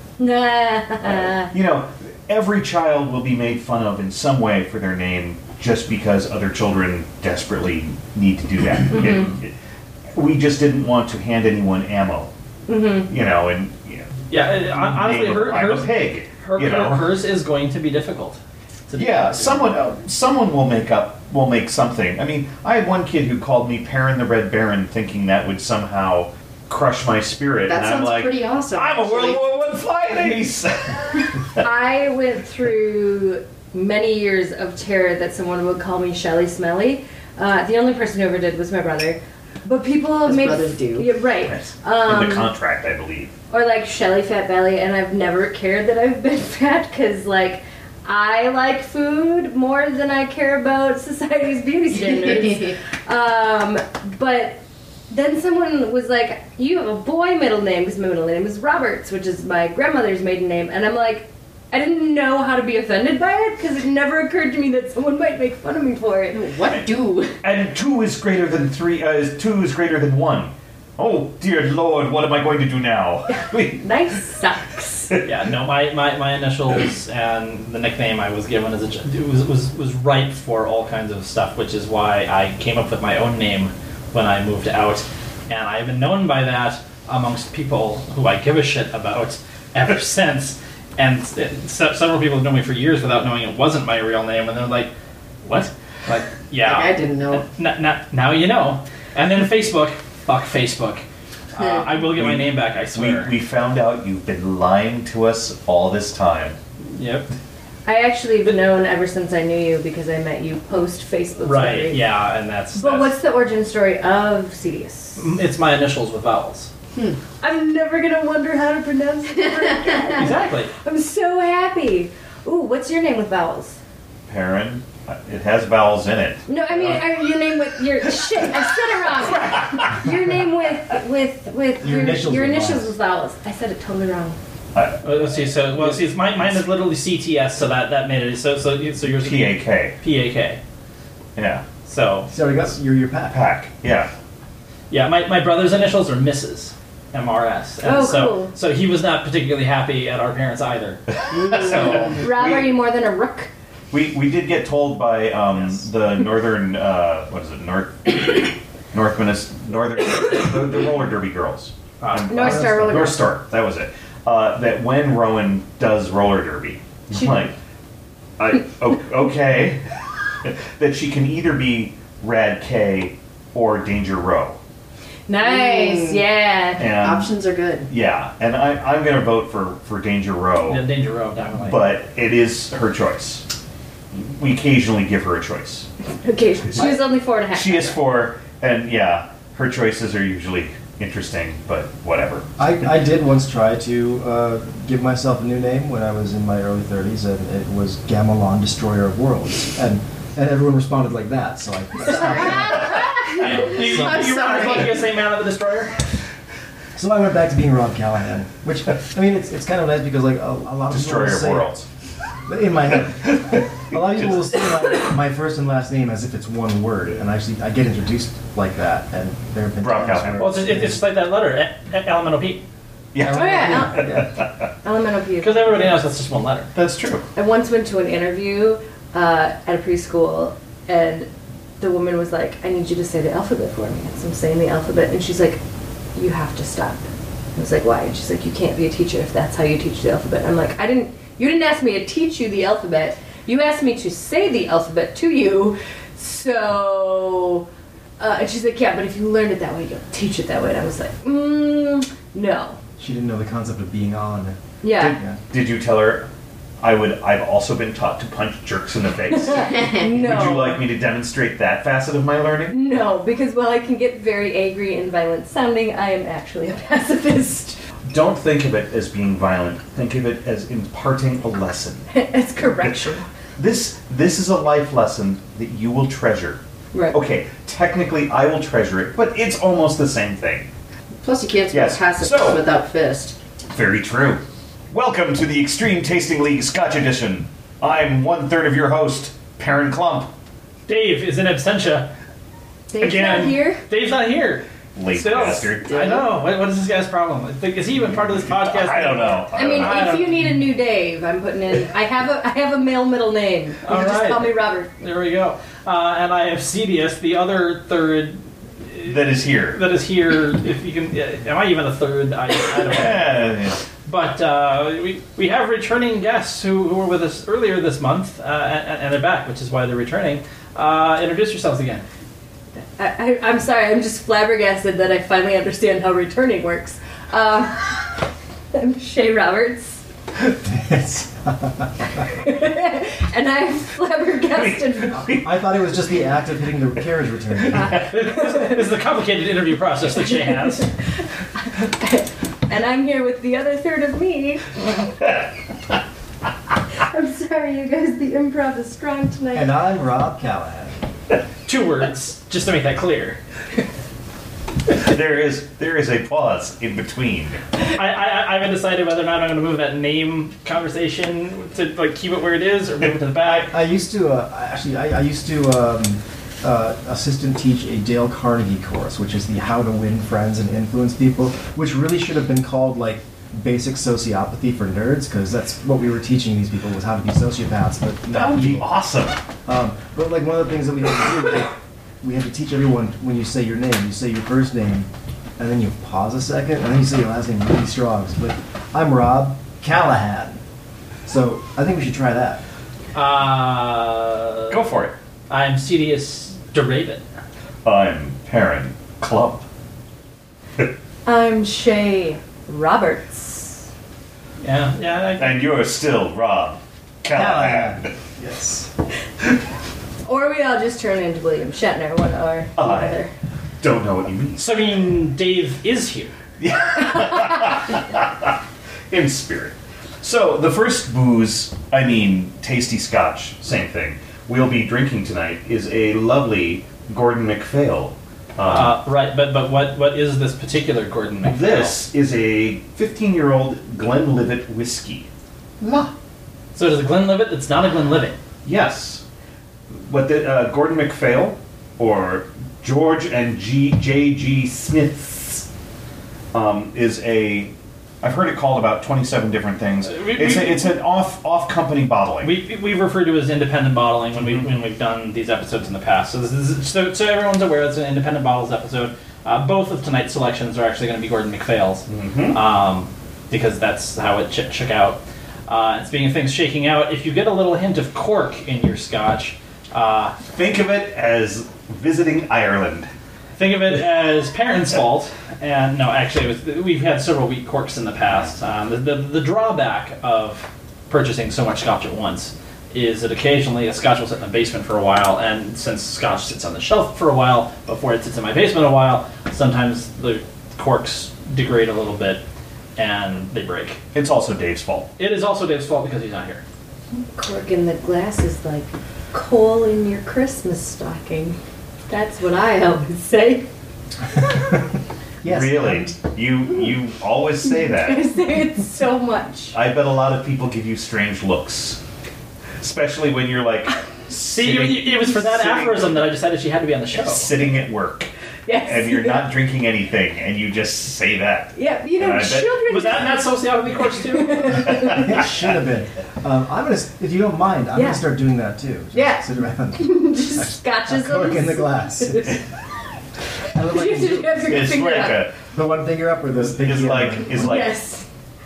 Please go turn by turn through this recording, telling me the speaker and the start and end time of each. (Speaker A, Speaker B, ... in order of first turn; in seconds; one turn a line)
Speaker A: 0.2-1.5
Speaker B: 1.0-9.5
Speaker A: 8.9-9.3
Speaker B: 10.1-12.3
Speaker A: 12.7-13.1
Speaker B: 13.1-17.1
Speaker C: 14.3-19.7
Speaker B: 18.9-31.6
Speaker D: 27.7-29.4
Speaker A: 31.6-42.5
Speaker D: 40.2-41.1
Speaker B: 41.5-43.3
Speaker A: 43.5-66.5
Speaker D: 52.0-52.7
Speaker D: 66.3-67.3
Speaker B: 66.7-73.8
Speaker A: 73.3-75.1
Speaker C: 75.2-94.9
Speaker C: 95.4-103.3
Speaker D: 96.1-97.5
Speaker D: 101.5-101.9
Speaker B: 102.1-106.6
Speaker C: 106.9-107.3
Speaker A: 107.8-112.0
Speaker C: 111.4-113.1
Speaker A: 112.7-115.2
Speaker C: 115.2-116.7
Speaker A: 117.4-123.8
Speaker C: 120.2-120.7
Speaker B: 124.3-127.0
Speaker A: 126.5-134.4
Speaker B: 129.4-129.8
Speaker E: 131.8-132.9
Speaker B: 134.7-135.0
Speaker C: 135.0-140.6
Speaker B: 139.0-140.0
Speaker B: 141.3-141.6
Speaker C: 141.8-142.3
Speaker E: 142.3-143.4
Speaker B: 143.3-144.1
Speaker C: 144.9-151.0
Speaker A: 147.8-148.5
Speaker B: 151.3-152.7
Speaker A: 152.1-153.5
Speaker B: 153.9-167.5
Speaker C: 162.0-162.6
Speaker A: 162.3-163.3
Speaker E: 162.5-163.1
Speaker B: 168.4-169.8
Speaker B: 170.4-174.6
Speaker A: 175.3-176.9
Speaker D: 175.4-176.2
Speaker B: 176.8-177.3
Speaker D: 176.9-177.9
Speaker B: 177.9-180.8
Speaker C: 180.7-181.9
Speaker B: 181.6-183.4
Speaker B: 184.1-185.9
Speaker A: 186.2-188.0
Speaker B: 187.5-193.0
Speaker E: 192.6-202.9
Speaker C: 203.3-205.9
Speaker B: 203.4-204.5
Speaker A: 203.4-203.7
Speaker E: 206.9-211.7
Speaker B: 210.9-211.8
Speaker E: 212.5-221.0
Speaker B: 213.2-214.4
Speaker B: 219.8-220.6
Speaker C: 220.4-222.6
Speaker B: 223.1-224.5
Speaker E: 223.2-224.3
Speaker A: 223.3-224.2
Speaker A: 224.8-226.0
Speaker C: 225.4-226.7
Speaker B: 226.7-227.3
Speaker A: 227.3-235.6
Speaker A: 236.1-247.7
Speaker A: 248.2-252.8
Speaker E: 253.0-255.4
Speaker A: 254.8-255.2
Speaker B: 255.0-256.3
Speaker B: 256.8-262.8
Speaker A: 259.3-260.8
Speaker A: 262.7-267.8
Speaker B: 268.1-272.1
Speaker A: 272.1-273.2
Speaker B: 272.8-276.6
Speaker B: 277.1-280.7
Speaker D: 281.2-283.3
Speaker B: 281.7-282.6
Speaker B: 283.7-290.3
Speaker C: 290.9-292.1
Speaker A: 292.9-293.8
Speaker C: 293.0-300.4
Speaker B: 294.9-296.1
Speaker D: 295.9-296.2
Speaker B: 298.3-300.1
Speaker A: 299.5-304.9
Speaker C: 303.8-322.0
Speaker B: 309.0-309.8
Speaker B: 312.7-313.8
Speaker A: 323.0-330.0
Speaker E: 330.6-332.1
Speaker A: 332.4-335.3
Speaker B: 334.5-335.6
Speaker E: 335.3-338.0
Speaker A: 337.7-338.8
Speaker C: 338.0-340.9
Speaker A: 341.6-344.8
Speaker A: 347.0-349.7
Speaker E: 349.5-351.0
Speaker C: 351.6-353.4
Speaker B: 355.0-357.6
Speaker C: 357.8-363.7
Speaker B: 363.4-363.7
Speaker E: 363.6-378.9
Speaker B: 378.3-379.4
Speaker E: 379.6-390.6
Speaker E: 391.2-392.6
Speaker C: 393.1-394.8
Speaker B: 394.7-395.1
Speaker C: 395.5-397.2
Speaker B: 397.8-399.6
Speaker A: 401.2-403.9
Speaker C: 404.6-405.6
Speaker B: 405.4-408.1
Speaker E: 407.3-408.9
Speaker A: 410.2-413.3
Speaker B: 412.8-413.2
Speaker B: 413.8-414.6
Speaker C: 414.6-416.3
Speaker B: 416.6-418.5
Speaker B: 419.1-428.9
Speaker C: 428.6-431.9
Speaker B: 431.4-435.3
Speaker B: 435.8-436.1
Speaker C: 436.7-438.4
Speaker B: 438.6-439.2
Speaker B: 440.0-445.7
Speaker B: 446.5-452.5
Speaker C: 450.0-450.9
Speaker C: 452.4-470.4
Speaker B: 462.1-462.6
Speaker B: 470.5-473.1
Speaker C: 473.6-492.4
Speaker C: 493.0-494.0
Speaker B: 494.1-495.1
Speaker C: 495.2-496.6
Speaker A: 497.2-501.6
Speaker A: 502.1-503.7
Speaker E: 505.4-506.1
Speaker B: 505.4-508.2
Speaker A: 507.8-509.8
Speaker B: 509.7-512.0
Speaker B: 512.8-516.2
Speaker C: 514.4-517.7
Speaker B: 517.1-518.3
Speaker A: 518.6-519.5
Speaker B: 518.8-522.9
Speaker A: 521.7-523.5
Speaker C: 522.9-525.0
Speaker A: 524.2-525.3
Speaker E: 524.9-532.6
Speaker A: 527.9-528.2
Speaker A: 529.1-529.4
Speaker A: 530.0-532.6
Speaker E: 533.7-534.8
Speaker A: 533.8-535.5
Speaker B: 534.7-535.5
Speaker E: 535.7-537.8
Speaker B: 536.7-537.9
Speaker A: 537.5-538.3